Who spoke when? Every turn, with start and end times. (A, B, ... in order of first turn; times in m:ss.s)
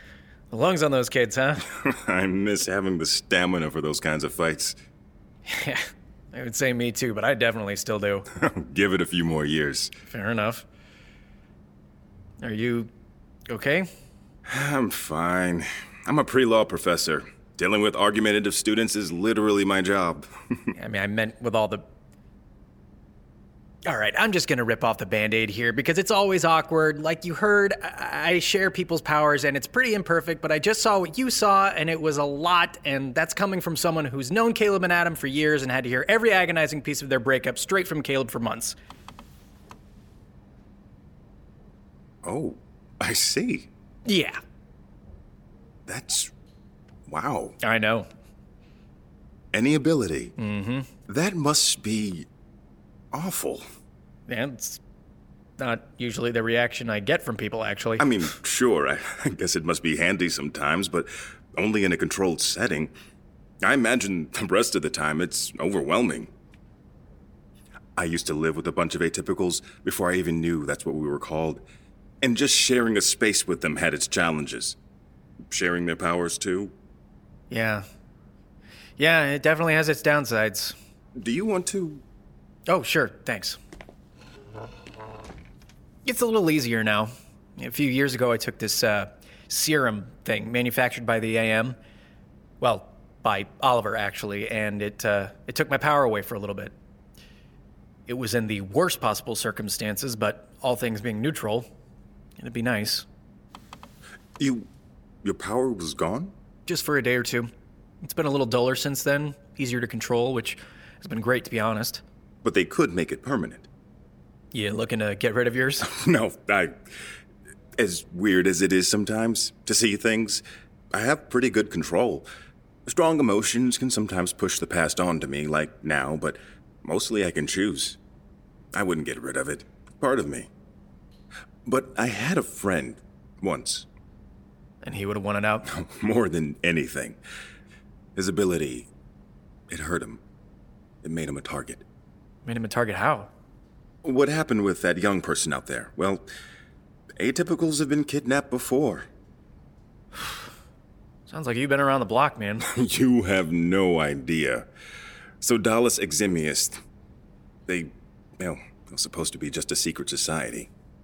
0:00.5-0:01.6 A
0:01.7-0:04.8 B
0:05.5-0:08.2 A
0:08.3-0:09.9 B
0:10.1-0:10.6 A
0:12.4-0:12.9 A
0:13.5-0:13.9 A
0:14.4-0:20.3 B
0:20.8-0:21.8 A
0:23.8-0:38.8 A
0:42.2-0:43.7 B
0:44.0-0:44.4 A
0:45.9-0:46.3 B
0:47.1-0:47.6 B
0:47.6-0:48.1 A
0:49.5-0:50.3 B
0:50.4-0:50.9 A
0:51.1-0:52.3 B
0:53.1-0:53.6 B
0:54.3-0:54.8 A
0:55.6-0:58.1 A
0:58.0-1:02.9 B
1:03.6-1:06.3 B
1:08.0-1:11.6 B
1:12.2-1:14.8 B
1:15.5-1:16.7 B
1:17.5-1:17.8 A
1:19.0-1:20.8 A
1:21.2-1:22.0 B
1:22.7-1:23.6 A
1:26.0-1:31.8 A
1:32.6-1:36.8 A
1:38.1-1:41.7 A
1:42.4-1:43.0 A
1:44.4-1:44.7 B
1:45.2-1:46.3 B
1:46.7-1:47.5 A
1:48.0-1:52.0 A
1:52.4-1:53.7 B
1:54.5-1:55.8 A
1:55.8-1:56.8 B
1:57.8-2:02.3 B
2:02.9-2:08.0 B
2:08.7-2:10.5 B
2:11.6-2:13.8 B
2:14.8-2:15.6 A
2:15.7-2:17.2 B
2:18.2-2:18.9 B
2:19.7-2:20.2 B
2:21.0-2:21.8 B
2:22.5-2:23.3 A
2:24.0-2:26.2 B
2:27.2-2:29.0 B
2:31.3-2:32.7 A
2:32.7-2:34.7 B
2:35.4-2:36.8 B
2:37.7-2:40.7 B